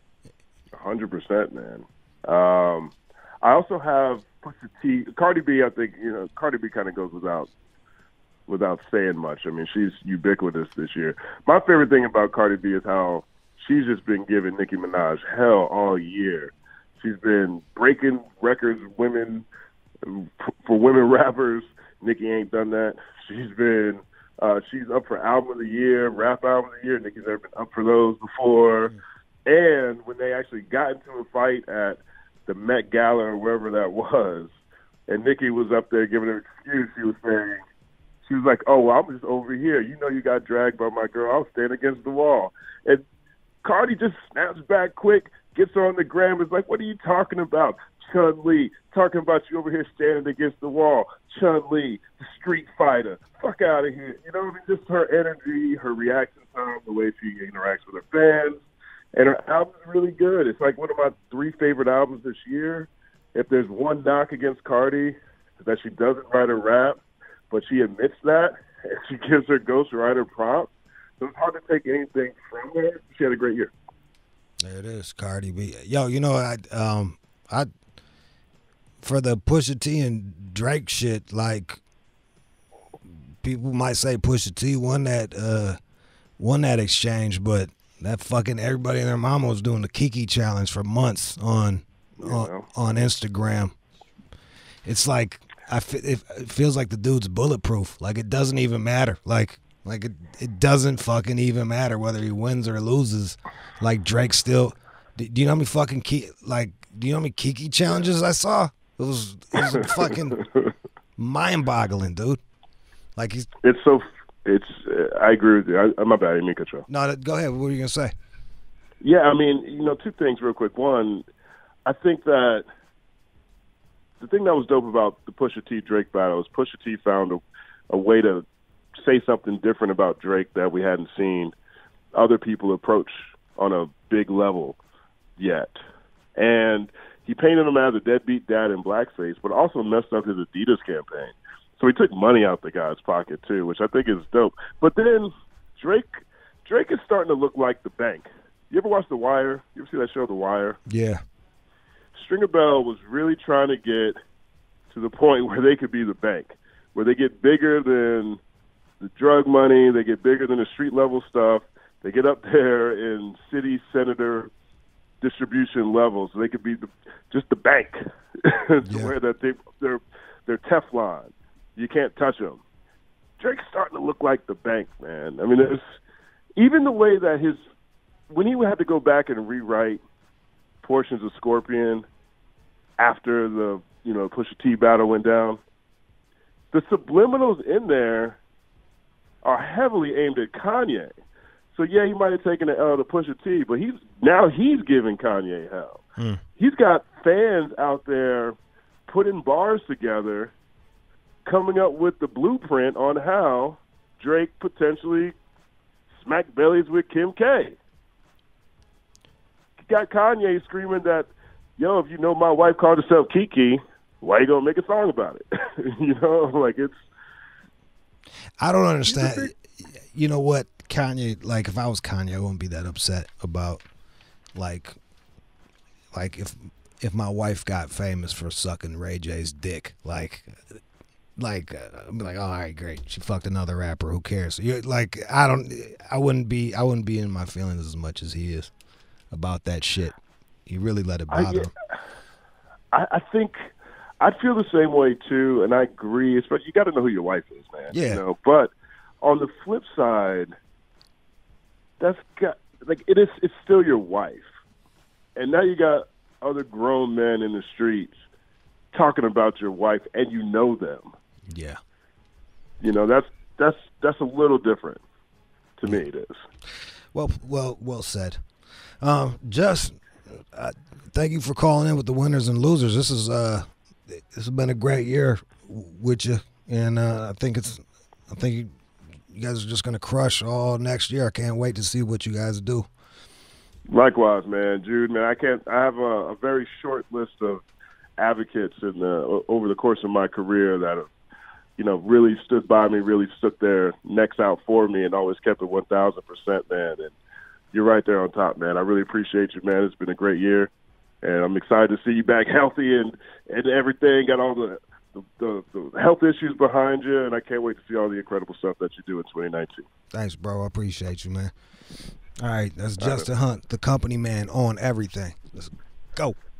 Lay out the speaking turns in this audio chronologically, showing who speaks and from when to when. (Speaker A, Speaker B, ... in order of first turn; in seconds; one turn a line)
Speaker A: 0.8-7.5
Speaker A: 8.5-19.5
Speaker A: 20.0-28.9
Speaker A: 29.5-34.5
Speaker A: 35.1-37.6
Speaker A: 38.2-43.0
Speaker A: 43.6-58.6
Speaker A: 59.2-67.0
Speaker A: 67.5-73.7
Speaker B: 74.6-77.7
Speaker B: 79.0-81.8
Speaker B: 83.4-85.8
Speaker B: 86.4-93.7
Speaker A: 92.2-92.7
Speaker B: 94.8-110.4
Speaker A: 109.7-110.7
Speaker B: 111.2-112.4
Speaker B: 113.2-113.5
Speaker A: 113.6-116.9
Speaker B: 116.9-118.1
Speaker A: 119.0-121.2
Speaker A: 121.8-122.7
Speaker A: 124.2-128.4
Speaker A: 129.0-131.6
Speaker A: 132.2-134.8
Speaker A: 135.4-135.8
Speaker A: 136.4-150.8
Speaker B: 150.9-151.2
Speaker A: 152.2-154.2
Speaker A: 154.9-158.4
Speaker A: 159.0-164.5
Speaker A: 165.2-172.6
Speaker B: 168.9-169.1
Speaker A: 173.4-176.0
Speaker A: 176.6-177.6
Speaker A: 178.3-180.0
Speaker A: 180.8-182.1
Speaker A: 183.0-185.6
Speaker A: 186.7-188.4
Speaker A: 189.4-191.1
Speaker A: 191.7-196.0
Speaker B: 196.2-196.4
Speaker A: 196.6-200.5
Speaker A: 201.5-205.3
Speaker A: 206.1-207.8
Speaker A: 209.8-217.0
Speaker B: 218.6-223.8
Speaker A: 219.1-219.5
Speaker B: 224.6-225.0
Speaker B: 226.1-230.7
Speaker B: 231.4-238.7
Speaker B: 239.3-241.7
Speaker A: 241.3-241.7
Speaker A: 242.9-250.5
Speaker B: 247.9-248.2
Speaker A: 252.0-254.5
Speaker A: 255.4-258.2
Speaker A: 258.9-261.1
Speaker B: 261.5-261.8
Speaker A: 262.8-265.0
Speaker A: 265.8-266.4
Speaker B: 267.1-268.4
Speaker B: 269.0-278.7
Speaker B: 279.3-282.9
Speaker A: 283.9-287.6
Speaker A: 288.2-291.1
Speaker A: 291.8-297.1
Speaker A: 297.7-300.7
Speaker A: 301.2-309.9
Speaker B: 310.1-311.5
Speaker B: 312.4-316.4
Speaker A: 313.0-313.3